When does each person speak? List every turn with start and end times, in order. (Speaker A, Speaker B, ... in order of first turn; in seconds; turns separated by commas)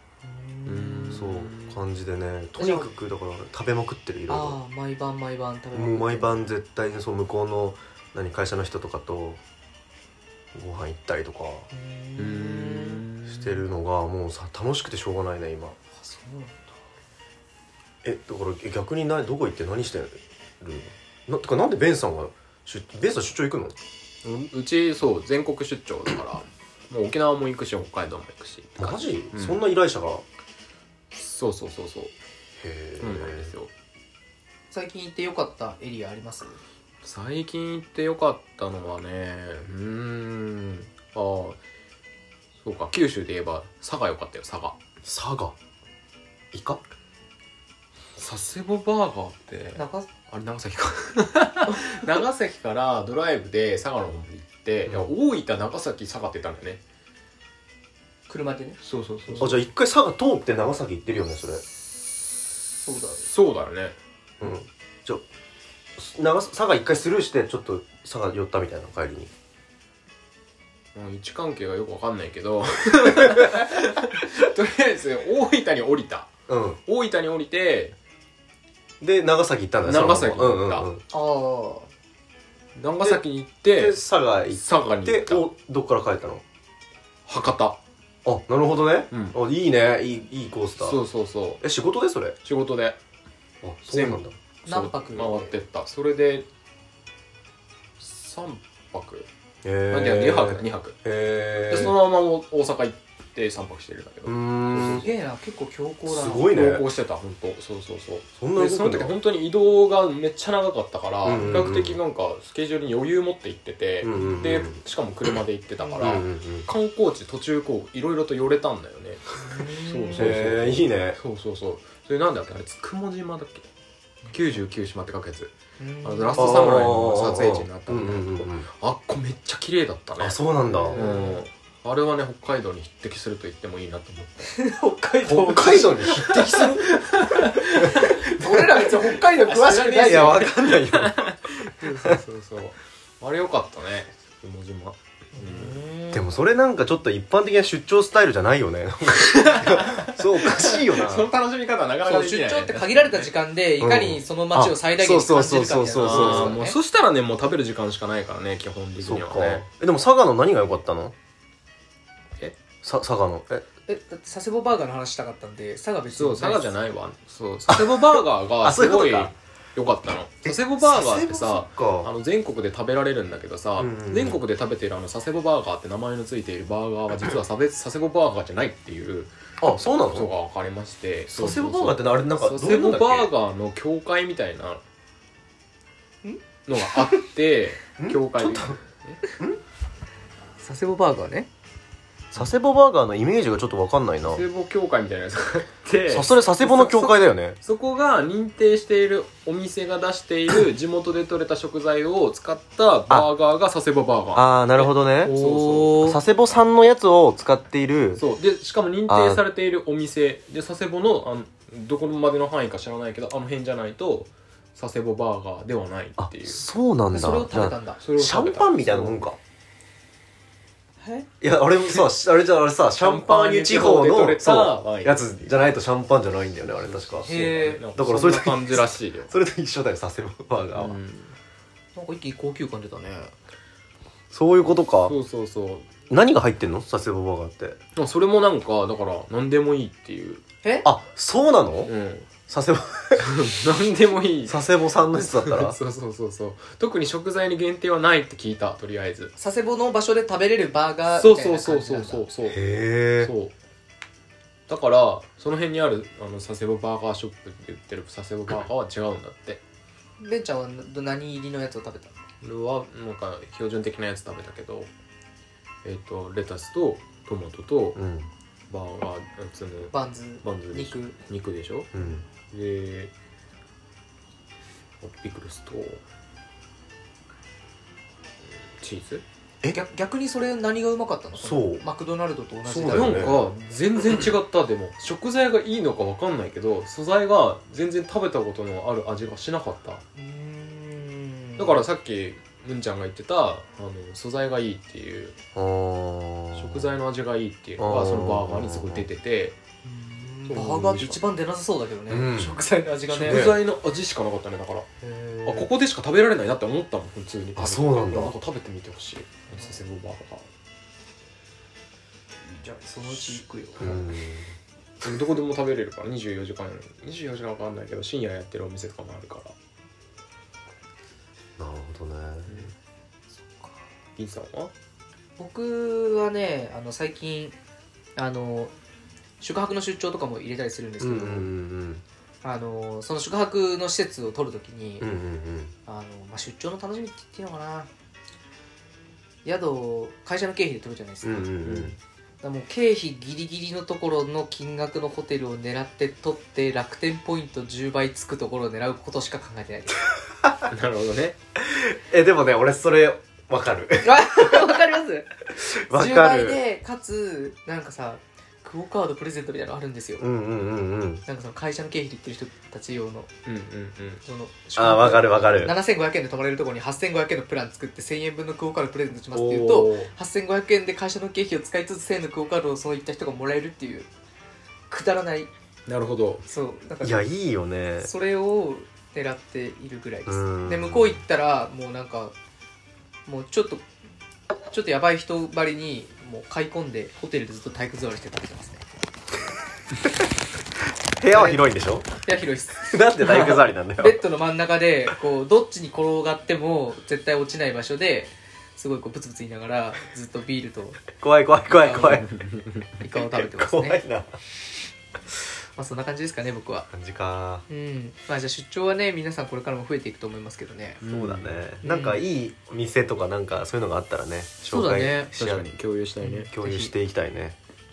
Speaker A: 0.2-1.2, Speaker B: 0.7-1.8, Speaker C: 1.1-4.6, Speaker A: 2.6-2.9, Speaker A: 4.3-6.4, Speaker C: 5.7-9.4, Speaker C: 10.5-11.7, Speaker A: 11.7-13.0, Speaker B: 12.2-13.6, Speaker C: 13.2-15.8, Speaker A: 15.9-16.8, Speaker C: 18.0-23.7, Speaker B: 24.2-29.6, Speaker C: 28.8-30.2, Speaker B: 31.1-32.1, Speaker C: 32.6-33.5, Speaker B: 33.0-33.7, Speaker A: 34.7-36.6, Speaker B: 37.0-41.6, Speaker B: 42.6-44.8, Speaker C: 45.0-45.5, Speaker C: 46.5-46.8, Speaker B: 48.2-56.8, Speaker A: 49.8-50.1, Speaker A: 58.3-59.5, Speaker B: 58.8-59.6, Speaker C: 59.4-61.6, Speaker A: 62.8-63.2, Speaker B: 63.2-64.0, Speaker C: 64.4-65.2, Speaker C: 66.0-69.3, Speaker B: 70.9-76.3, Speaker C: 76.5-76.8, Speaker B: 76.9-78.0, Speaker C: 79.0-81.0, Speaker B: 79.8-80.9, Speaker A: 81.1-81.9, Speaker B: 82.8-85.5, Speaker C: 83.7-86.4, Speaker B: 87.3-87.8, Speaker C: 88.2-91.0, Speaker B: 89.1-89.3, Speaker B: 90.8-91.6, Speaker C: 91.6-92.4, Speaker B: 92.4-93.0, Speaker C: 93.6-94.3, Speaker B: 93.9-96.5, Speaker A: 94.7-95.6, Speaker B: 98.0-99.3, Speaker C: 99.6-102.0, Speaker B: 99.9-101.0, Speaker B: 101.7-105.1, Speaker C: 104.2-105.1, Speaker A: 104.9-106.5, Speaker C: 106.1-106.9, Speaker B: 106.4-123.7, Speaker C: 108.4-109.1, Speaker C: 111.2-112.0, Speaker C: 114.0-114.8, Speaker A: 115.8-116.1, Speaker C: 116.0-116.7, Speaker A: 119.4-120.4, Speaker C: 120.1-121.2, Speaker A: 124.2-124.5, Speaker B: 124.3-130.4, Speaker A: 125.8-126.8, Speaker C: 126.4-128.7, Speaker C: 130.2-131.0, Speaker A: 130.7-131.4, Speaker B: 130.9-134.5, Speaker A: 134.5-140.5, Speaker C: 135.2-136.7, Speaker B: 136.2-138.0, Speaker C: 137.8-138.7, Speaker B: 138.9-145.8, Speaker C: 139.8-142.2, Speaker A: 145.3-146.2, Speaker C: 146.1-151.3, Speaker B: 149.2-153.3, Speaker A: 152.0-156.8, Speaker C: 153.8-156.6, Speaker B: 156.0-159.6, Speaker C: 159.0-161.1, Speaker C: 162.8-163.7, Speaker A: 163.9-166.7, Speaker B: 166.1-179.3, Speaker C: 167.7-169.3, Speaker C: 170.4-172.1, Speaker C: 173.8-174.4, Speaker C: 179.6-180.3, Speaker B: 180.1-184.8, Speaker C: 181.3-183.3, Speaker B: 186.7-189.2, Speaker A: 186.9-187.2, Speaker C: 188.0-188.8, Speaker A: 190.6-191.5, Speaker C: 192.3-194.4, Speaker B: 194.2-206.2, Speaker C: 196.1-197.6, Speaker C: 204.3-205.4, Speaker A: 205.2-206.2, Speaker C: 205.9-208.2, Speaker B: 208.2-216.6, Speaker C: 209.1-209.4, Speaker C: 216.2-219.4, Speaker A: 217.1-218.0, Speaker B: 218.0-219.2, Speaker A: 221.0-221.3, Speaker C: 221.4-231.0, Speaker B: 223.0-225.3, Speaker B: 226.6-229.3, Speaker A: 227.2-227.8, Speaker B: 230.7-231.3, Speaker A: 231.9-233.3, Speaker C: 234.3-235.2, Speaker B: 235.0-235.9, Speaker C: 236.1-237.8, Speaker B: 237.9-240.4, Speaker C: 240.8-241.9, Speaker B: 241.8-242.3, Speaker C: 242.5-243.4, Speaker B: 243.2-249.3, Speaker C: 244.4-245.8, Speaker A: 249.4-252.3, Speaker B: 251.1-252.6, Speaker C: 252.4-253.3, Speaker B: 253.2-253.5, Speaker B: 254.7-259.6, Speaker A: 260.2-262.2, Speaker B: 262.4-264.9, Speaker B: 265.8-268.0, Speaker C: 267.9-268.3, Speaker B: 268.7-271.9, Speaker A: 269.9-271.1, Speaker C: 271.9-272.2, Speaker B: 272.5-273.1, Speaker B: 275.0-276.0, Speaker B: 278.4-279.2, Speaker A: 279.7-283.4, Speaker C: 281.4-281.8, Speaker C: 282.6-283.5, Speaker B: 282.9-290.0, Speaker A: 290.1-291.8, Speaker B: 291.6-295.4, Speaker C: 295.5-296.9, Speaker B: 296.5-299.6, Speaker C: 297.8-299.0, Speaker A: 299.8-303.5, Speaker B: 300.5-301.2, Speaker C: 302.1-302.6, Speaker C: 303.1-303.6, Speaker B: 303.1-304.9, Speaker A: 305.0-305.7, Speaker B: 305.4-310.5, Speaker C: 307.6-308.3, Speaker A: 312.4-314.1, Speaker C: 313.8-314.5, Speaker B: 315.0-319.5, Speaker C: 321.6-322.6, Speaker B: 322.5-322.7, Speaker A: 323.3-323.8, Speaker B: 324.1-324.7, Speaker A: 325.4-327.6, Speaker A: 328.1-328.7, Speaker A: 329.4-331.5, Speaker C: 331.0-332.0, Speaker A: 332.4-335.1, Speaker C: 335.0-335.7, Speaker A: 335.9-337.9, Speaker A: 339.4-341.6, Speaker C: 341.2-341.9, Speaker B: 341.6-342.0, Speaker A: 342.4-350.0, Speaker B: 350.7-351.4, Speaker C: 351.6-354.8, Speaker A: 354.0-360.2, Speaker C: 355.5-356.6, Speaker C: 360.2-361.2, Speaker A: 361.2-363.3, Speaker B: 363.4-364.2, Speaker A: 364.2-374.1, Speaker C: 364.8-365.7, Speaker B: 369.3-370.1, Speaker A: 374.9-375.5, Speaker B: 375.9-376.4, Speaker A: 376.4-377.3, Speaker C: 377.0-378.1, Speaker A: 378.0-382.3, Speaker C: 380.3-381.2, Speaker A: 383.2-383.9, Speaker A: 384.7-388.8, Speaker C: 391.2-392.1, Speaker A: 391.3-391.6, Speaker A: 392.2-401.1, Speaker C: 392.9-394.2, Speaker C: 401.2-402.3, Speaker A: 401.7-402.3, Speaker B: 402.3-402.8, Speaker A: 403.0-404.0, Speaker C: 403.1-404.4, Speaker A: 405.8-406.9, Speaker C: 406.9-407.6, Speaker A: 407.7-411.0, Speaker B: 411.0-411.6, Speaker C: 411.0-415.7, Speaker A: 411.8-412.2, Speaker A: 414.7-415.3, Speaker B: 415.4-416.5, Speaker A: 416.2-416.9, Speaker C: 416.5-417.6